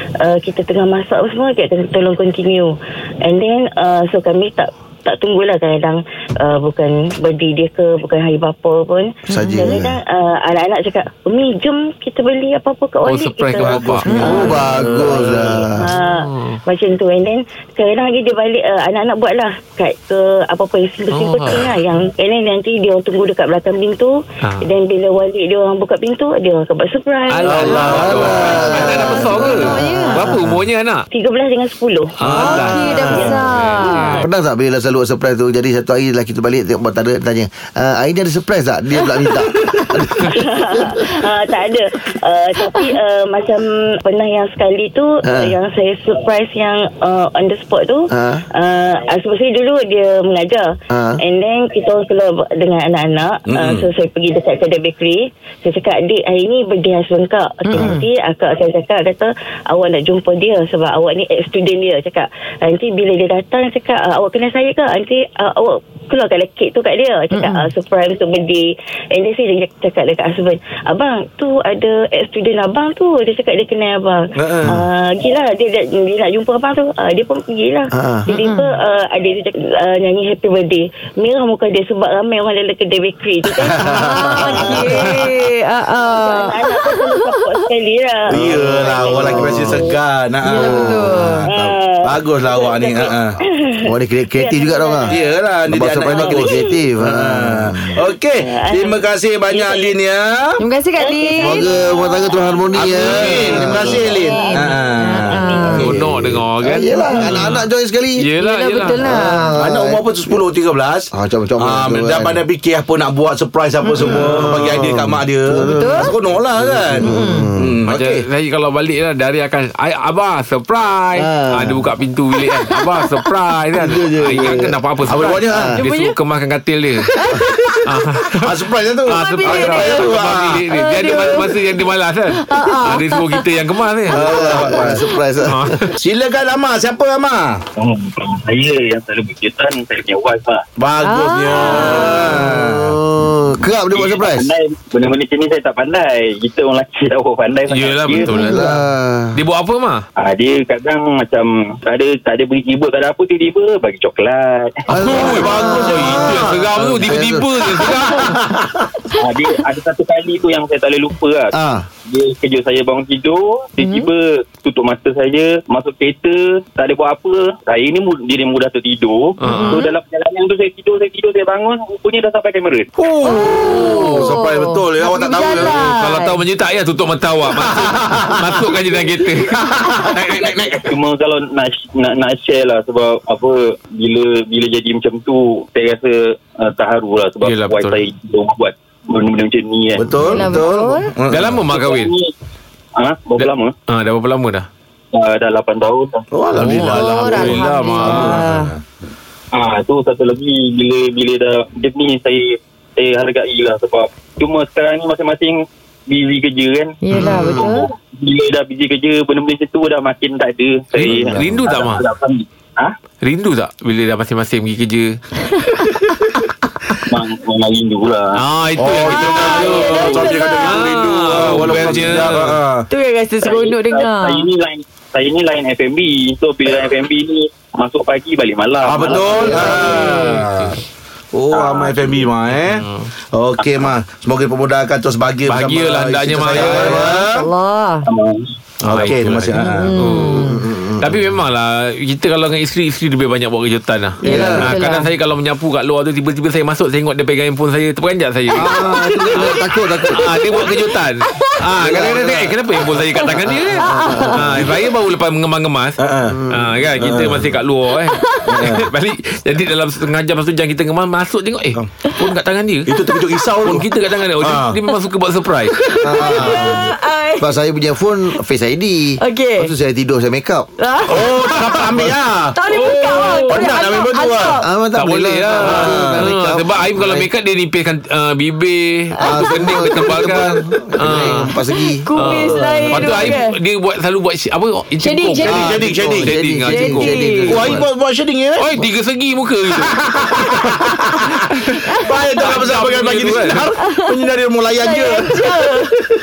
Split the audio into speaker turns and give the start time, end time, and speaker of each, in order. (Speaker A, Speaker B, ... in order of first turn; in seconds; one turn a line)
Speaker A: 0.2-29.0
Speaker B: 9.3-9.8
Speaker C: 9.3-10.0
Speaker D: 13.0-14.1
Speaker E: 13.7-15.2
Speaker C: 13.8-15.9
Speaker D: 16.0-16.6
Speaker D: 21.1-21.7
Speaker D: 27.3-31.1
Speaker E: 27.5-28.7
Speaker C: 27.7-30.6
Speaker B: 28.7-30.2
Speaker A: 31.1-34.3
Speaker D: 32.2-34.2
Speaker E: 32.2-33.3
Speaker B: 32.3-34.2
Speaker C: 34.2-41.1
Speaker A: 40.3-85.1
Speaker C: 45.2-45.5
Speaker C: 48.1-48.4
Speaker C: 50.9-51.2
Speaker E: 53.5-53.9
Speaker B: 57.6-58.0
Speaker B: 67.3-67.7
Speaker E: 74.4-74.8
Speaker C: 77.9-78.3
Speaker B: 78.4-78.6
Speaker E: 83.6-84.0
Speaker C: 83.8-84.8
Speaker B: 84.0-87.6
Speaker E: 84.6-84.9
Speaker A: 86.0-90.0
Speaker E: 88.3-91.0
Speaker C: 88.4-89.9
Speaker B: 90.5-91.4
Speaker C: 90.6-91.8
Speaker A: 91.5-95.5
Speaker E: 92.0-93.4
Speaker C: 93.9-95.1
Speaker E: 95.1-100.6
Speaker C: 95.7-98.0
Speaker A: 96.1-96.8
Speaker A: 98.0-100.0
Speaker B: 100.6-101.7
Speaker A: 101.0-105.8
Speaker C: 101.4-104.0
Speaker E: 102.8-105.9
Speaker B: 104.2-105.9
Speaker C: 105.6-108.2
Speaker D: 105.8-107.6
Speaker D: 108.2-109.0
Speaker B: 108.4-109.5
Speaker C: 109.0-110.4
Speaker E: 109.6-118.3
Speaker C: 111.1-112.4
Speaker C: 114.0-117.8
Speaker B: 115.6-116.1
Speaker B: 117.0-117.5
Speaker D: 117.9-127.1
Speaker C: 121.2-121.8
Speaker C: 123.8-124.8
Speaker E: 125.1-125.8
Speaker C: 125.5-125.8
Speaker B: 125.8-126.1
Speaker B: 127.2-127.6
Speaker D: 127.8-134.3
Speaker E: 128.3-131.4
Speaker B: 129.1-130.2
Speaker B: 130.7-131.7
Speaker B: 132.3-133.4
Speaker E: 134.1-135.0
Speaker C: 134.1-135.8
Speaker D: 135.4-135.9
Speaker E: 136.0-137.6
Speaker F: 137.8-140.6
Speaker E: 140.8-143.0
Speaker B: 141.0-142.2
Speaker C: 141.8-144.5
Speaker F: 144.0-148.3
Speaker D: 147.7-148.7
Speaker C: 148.3-149.4
Speaker B: 148.3-148.6
Speaker D: 149.3-150.0
Speaker F: 150.2-154.8
Speaker C: 154.9-158.2
Speaker D: 155.1-158.3
Speaker E: 155.1-156.6
Speaker F: 159.2-161.5
Speaker C: 161.5-161.9
Speaker F: 162.1-172.9
Speaker B: 163.8-164.1
Speaker D: 169.4-169.8
Speaker B: 169.4-169.9
Speaker E: 172.9-175.8
Speaker B: 173.2-176.4
Speaker D: 175.6-179.5
Speaker E: 177.6-178.7
Speaker E: 179.6-180.9
Speaker F: 180.8-190.1
Speaker D: 187.4-188.0
Speaker E: 190.0-191.6
Speaker B: 190.2-191.1
Speaker D: 191.3-192.1
Speaker F: 191.7-192.3
Speaker F: 193.0-193.7
Speaker D: 193.4-194.7
Speaker F: 195.1-196.3
Speaker E: 196.3-198.8
Speaker D: 196.6-198.4
Speaker B: 196.7-198.7
Speaker F: 199.5-206.9
Speaker B: 207.0-207.9
Speaker C: 207.2-207.7
Speaker F: 207.5-212.9
Speaker D: 211.0-212.0
Speaker E: 211.0-211.4
Speaker D: 213.2-215.2
Speaker F: 217.1-218.4
Speaker D: 218.4-222.6
Speaker E: 218.8-222.9
Speaker B: 219.1-220.9
Speaker B: 222.9-224.5
Speaker F: 223.4-229.8
Speaker E: 228.8-230.8
Speaker B: 229.5-230.3
Speaker D: 230.0-230.7
Speaker E: 231.3-237.5
Speaker F: 231.5-232.0
Speaker D: 232.7-233.1
Speaker D: 235.5-237.2
Speaker C: 236.6-237.1
Speaker B: 237.1-238.1
Speaker F: 238.1-238.5
Speaker E: 238.8-240.0
Speaker D: 238.8-248.8
Speaker B: 239.6-240.7
Speaker C: 240.4-241.3
Speaker B: 244.2-245.1
Speaker E: 244.3-244.7
Speaker C: 244.3-244.7
Speaker C: 248.5-250.5
Speaker B: 248.9-249.4
Speaker D: 250.1-256.0
Speaker E: 251.8-253.0
Speaker C: 253.6-254.5
Speaker B: 253.8-254.4
Speaker E: 256.0-256.4
Speaker C: 256.3-257.3
Speaker D: 256.5-262.9
Speaker E: 257.0-257.5
Speaker B: 258.1-258.5
Speaker E: 258.5-258.9
Speaker E: 262.9-263.9
Speaker D: 263.6-266.4
Speaker E: 264.4-264.8
Speaker B: 265.8-267.5
Speaker C: 266.0-270.7
Speaker B: 269.2-269.7
Speaker B: 270.8-271.6
Speaker E: 271.1-274.6
Speaker D: 271.4-271.9
Speaker B: 272.6-274.6
Speaker D: 272.7-273.8
Speaker C: 274.6-277.3
Speaker D: 274.9-281.5
Speaker E: 275.6-276.3
Speaker B: 279.2-280.0
Speaker C: 279.2-282.0
Speaker B: 281.7-283.6
Speaker D: 282.2-285.7
Speaker E: 282.3-283.3
Speaker B: 285.0-285.7
Speaker E: 285.4-286.4
Speaker C: 285.5-287.9
Speaker D: 286.3-287.8
Speaker B: 286.7-287.6
Speaker E: 287.5-288.7
Speaker D: 288.6-290.8
Speaker E: 289.8-291.2
Speaker E: 292.0-295.5
Speaker D: 292.4-293.7
Speaker B: 293.8-294.1
Speaker B: 294.8-295.9